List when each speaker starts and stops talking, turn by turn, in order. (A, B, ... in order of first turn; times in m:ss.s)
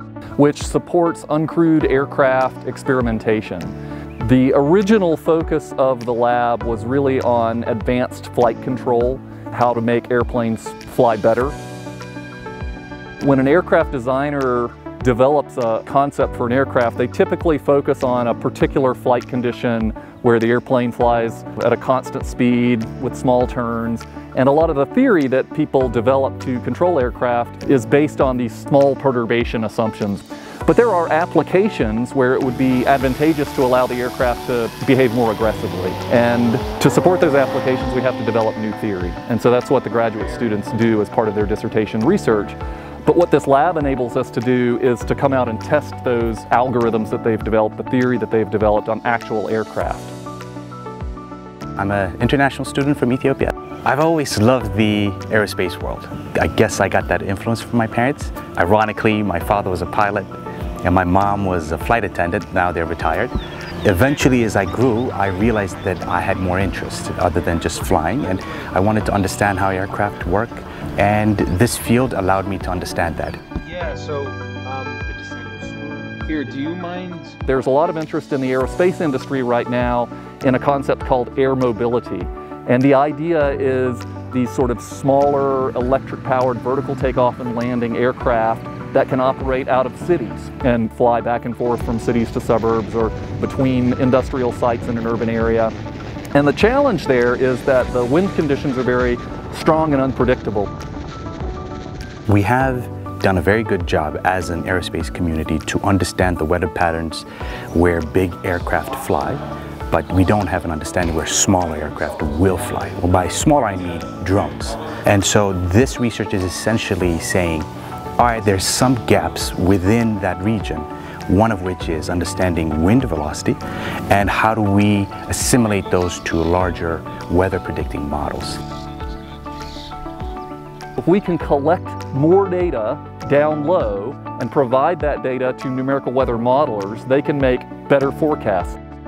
0:00.4-0:11.6 A
0:13.2-0:50.1 A
0:51.8-1:00.3 B
1:00.8-1:13.4 B
1:13.6-1:17.4 C
1:17.4-1:35.7 A
1:36.3-1:40.7 A
1:42.3-1:57.7 B
1:58.2-2:08.6 B
2:11.0-2:18.8 A